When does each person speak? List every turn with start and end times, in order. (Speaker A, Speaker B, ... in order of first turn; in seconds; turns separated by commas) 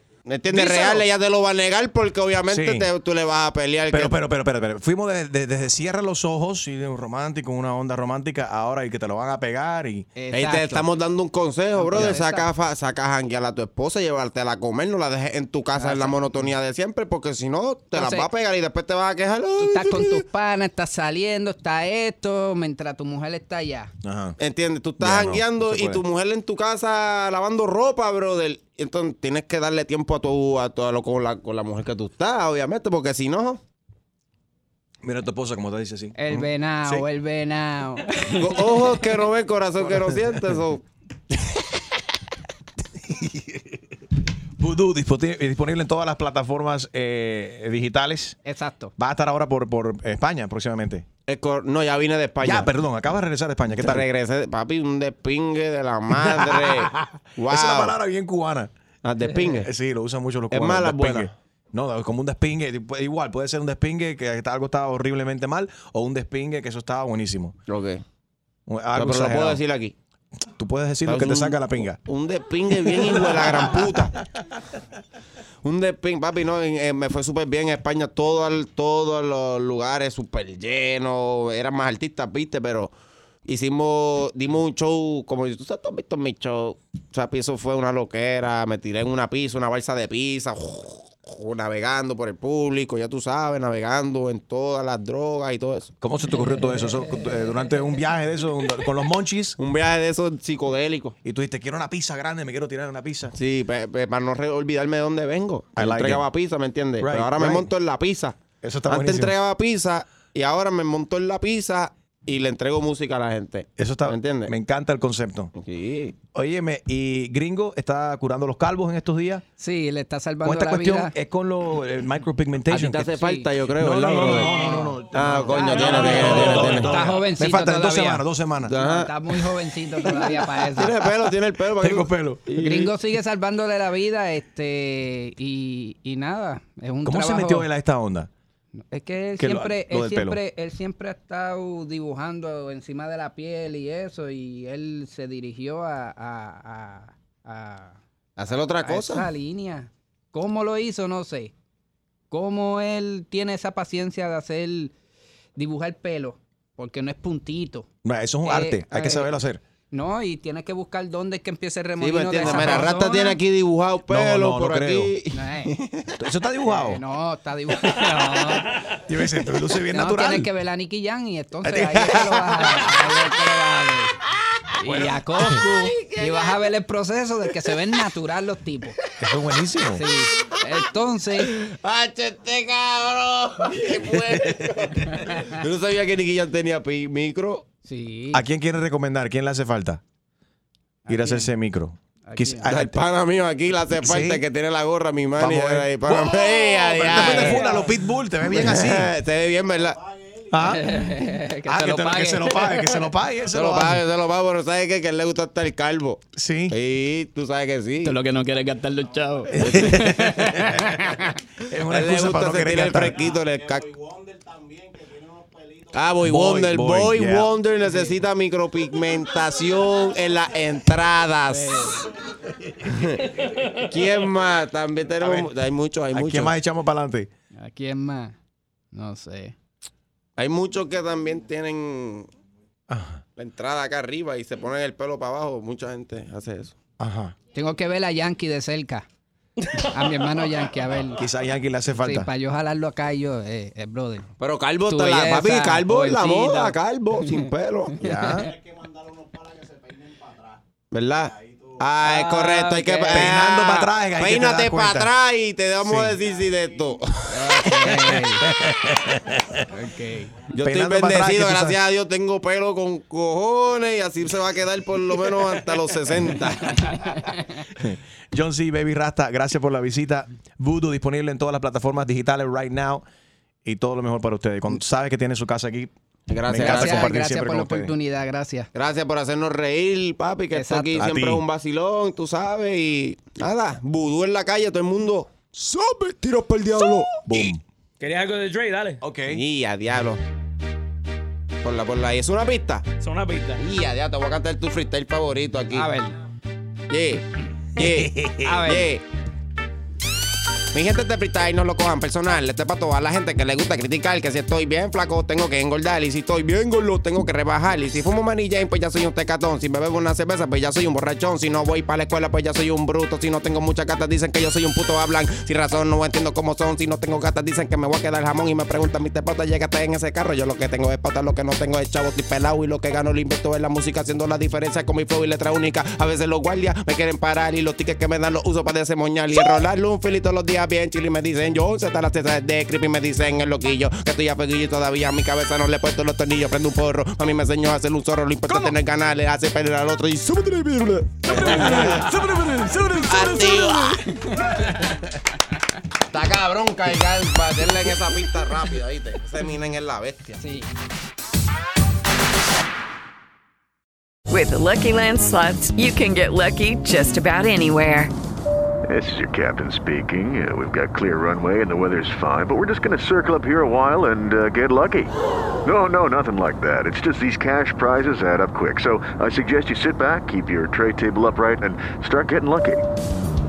Speaker A: 0.2-4.2, Speaker B: 0.5-1.0, Speaker C: 2.5-2.9, Speaker C: 3.9-10.1, Speaker B: 10.2-10.8, Speaker A: 10.3-20.2, Speaker B: 11.8-12.5, Speaker B: 15.8-16.5, Speaker B: 17.9-18.3, Speaker B: 19.6-23.9, Speaker C: 24.0-24.4, Speaker A: 24.4-33.6, Speaker C: 25.0-26.0, Speaker C: 35.0-37.0, Speaker B: 36.1-38.8, Speaker A: 38.3-40.8, Speaker C: 43.0-43.8, Speaker C: 44.6-48.4, Speaker B: 48.4-48.9, Speaker C: 49.0-51.0, Speaker A: 51.3-52.7, Speaker C: 52.4-54.0, Speaker A: 53.8-58.0, Speaker C: 56.1-58.7, Speaker A: 59.0-59.7, Speaker C: 59.5-67.5, Speaker A: 60.5-61.3, Speaker A: 67.7-68.0, Speaker C: 68.7-69.6, Speaker A: 68.9-69.9, Speaker C: 70.6-72.0, Speaker A: 71.0-74.1, Speaker C: 73.1-73.9, Speaker A: 75.6-82.9, Speaker A: 83.5-95.9, Speaker C: 96.0-99.5, Speaker A: 99.6-101.1, Speaker C: 101.2-103.3, Speaker A: 103.3-114.5, Speaker C: 105.8-106.2, Speaker C: 107.0-107.7, Speaker C: 108.6-109.3, Speaker C: 113.8-115.5, Speaker A: 115.6-116.2, Speaker C: 116.3-119.4, Speaker B: 119.6-121.1, Speaker C: 120.4-123.1, Speaker A: 122.7-127.0, Speaker B: 123.1-123.5, Speaker C: 123.8-128.7, Speaker B: 124.3-130.9, Speaker D: 125.8-126.3, Speaker A: 128.6-129.1, Speaker A: 130.7-132.9, Speaker C: 131.8-132.4, Speaker B: 132.6-137.7, Speaker C: 137.0-138.3, Speaker B: 138.9-148.0, Speaker C: 139.4-140.4, Speaker A: 148.4-149.3, Speaker B: 148.8-151.5, Speaker B: 152.3-154.9, Speaker B: 155.6-157.9, Speaker C: 158.0-159.6, Speaker B: 158.4-159.3, Speaker B: 159.9-163.4, Speaker A: 162.0-166.2, Speaker C: 164.1-165.1, Speaker B: 165.3-165.7, Speaker C: 166.2-167.0, Speaker B: 166.6-168.7, Speaker C: 169.1-170.5, Speaker B: 169.9-174.1, Speaker C: 171.6-172.9, Speaker B: 174.8-179.0, Speaker C: 174.8-175.6, Speaker A: 175.4-176.7, Speaker C: 179.2-180.0, Speaker B: 179.9-181.5, Speaker A: 181.4-187.7, Speaker C: 184.1-185.1, Speaker B: 185.1-185.4, Speaker B: 187.8-188.4, Speaker C: 188.3-190.0, Speaker B: 191.1-191.5, Speaker C: 191.1-193.0, Speaker B: 192.2-192.7, Speaker A: 192.7-197.8, Speaker C: 193.9-194.4, Speaker C: 195.4-199.1, Speaker B: 197.3-197.7, Speaker A: 198.4-200.0, Speaker C: 200.5-204.0, Speaker B: 200.7-203.0, Speaker A: 203.5-208.2, Speaker C: 206.3-206.7, Speaker B: 208.0-211.0, Speaker C: 209.5-213.2, Speaker A: 211.9-213.9, Speaker A: 215.9-221.9, Speaker C: 216.2-217.5, Speaker B: 221.5-222.1, Speaker A: 222.8-226.5, Speaker C: 225.2-225.5, Speaker C: 226.1-227.3, Speaker B: 227.6-228.3, Speaker B: 228.9-229.5, Speaker A: 230.4-232.3, Speaker C: 232.9-233.2, Speaker A: 233.4-236.7, Speaker C: 237.0-237.3, Speaker B: 237.5-239.1, Speaker B: 239.8-241.2, Speaker C: 241.2-242.3, Speaker B: 242.0-244.3, Speaker A: 244.4-248.1, Speaker B: 244.9-246.7, Speaker C: 248.0-248.6, Speaker B: 248.0-248.5, Speaker A: 250.9-258.0, Speaker B: 252.0-253.3, Speaker C: 253.1-255.1, Speaker C: 255.8-256.2, Speaker B: 257.3-258.5, Speaker C: 257.9-259.6, Speaker B: 259.7-260.4, Speaker A: 260.5-266.8, Speaker C: 260.6-261.8, Speaker B: 266.9-267.6, Speaker C: 267.8-273.0, Speaker C: 273.6-275.9, Speaker A: 276.3-277.2, Speaker C: 276.5-277.9, Speaker B: 276.6-278.7, Speaker A: 278.7-287.5, Speaker B: 280.5-281.0, Speaker C: 280.9-281.4, Speaker C: 287.2-287.6, Speaker D: 288.0-289.0, Speaker C: 289.0-289.4, Speaker A: 289.3-290.2, Speaker A: 291.6-292.9, Speaker D: 293.0-293.6, Speaker A: 293.6-295.9, Speaker B: 295.7-296.1, Speaker A: 296.9-297.2, Speaker C: 297.8-298.5, Speaker A: 297.8-299.0, Speaker B: 298.4-298.9, Speaker A: 300.7-342.2, Speaker C: 341.5-341.9, Speaker D: 341.5-343.9, Speaker A: 343.0-344.6, Speaker B: 344.0-344.6, Speaker A: 346.1-350.4, Speaker B: 350.4-350.7, Speaker E: 354.3-358.1, Speaker F: 358.9-372.9